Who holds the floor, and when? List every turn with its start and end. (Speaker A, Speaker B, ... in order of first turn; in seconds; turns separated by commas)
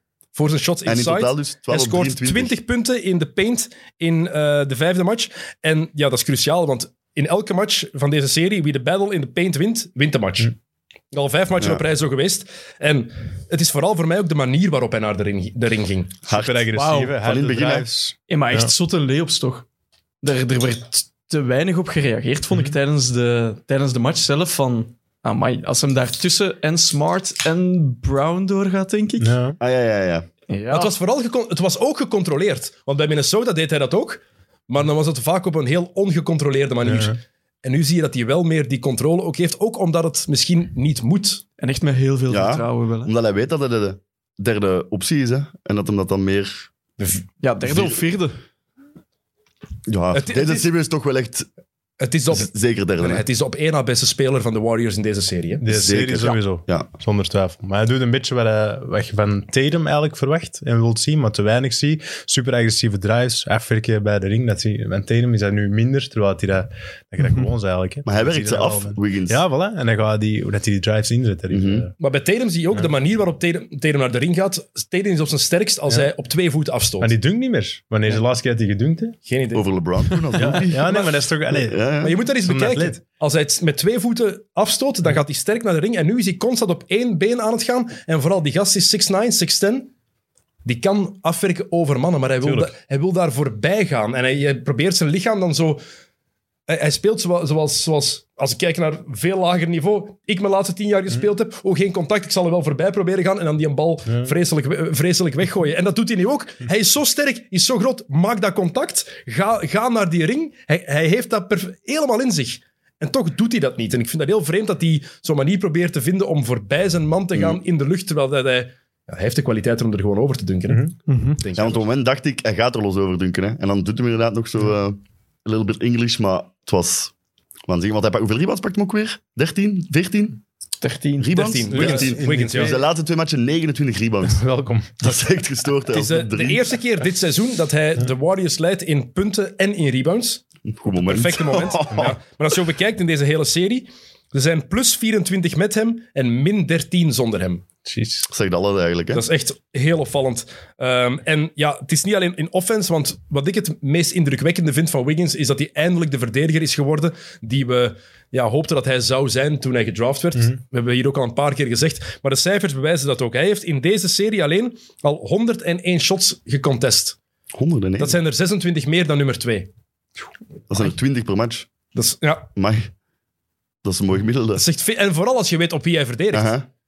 Speaker A: 0.3-10.5, Speaker B: 0.9-2.6, Speaker A: 11.1-16.2, Speaker B: 16.3-17.9, Speaker C: 16.3-18.7, Speaker D: 16.8-17.2, Speaker D: 18.3-19.7, Speaker D: 20.2-29.4, Speaker C: 29.2-29.6, Speaker B: 29.6-30.3, Speaker D: 30.5-30.9, Speaker A: 30.7-41.4, Speaker C: 36.9-37.2, Speaker D: 41.6-43.1, Speaker B: 42.3-48.0, Speaker D: 47.4-48.4, Speaker B: 49.9-51.5, Speaker A: 50.1-50.7, Speaker A: 52.0-52.5, Speaker B: 52.3-53.2, Speaker A: 53.0-55.6, Speaker C: 55.6-71.9, Speaker B: 55.7-56.9, Speaker B: 68.1-69.4, Speaker B: 71.5-71.9, Speaker A: 72.0-77.1, Speaker C: 77.0-79.2, Speaker A: 79.3-79.7, Speaker B: 79.5-82.2, Speaker C: 80.4-83.0, Speaker A: 82.0-89.9, Speaker A: 90.7-95.8, Speaker C: 92.4-92.7, Speaker A: 96.7-121.9, Speaker D: 121.1-121.4, Speaker B: 121.6-127.1, Speaker B: 127.7-130.4, Speaker D: 130.8-131.8, Speaker B: 131.2-134.4, Speaker A: 131.3-132.8, Speaker C: 131.7-132.8, Speaker C: 134.3-135.1, Speaker B: 135.0-136.6, Speaker A: 135.9-147.6, Speaker B: 140.7-142.2, Speaker C: 147.8-148.3, Speaker B: 148.3-149.2, Speaker A: 149.1-167.2, Speaker B: 167.6-168.2, Speaker A: 168.0-169.7, Speaker B: 170.7-171.7, Speaker A: 171.9-172.5, Speaker B: 172.6-172.9, Speaker B: 173.8-174.6, Speaker A: 174.6-176.5, Speaker B: 176.3-176.7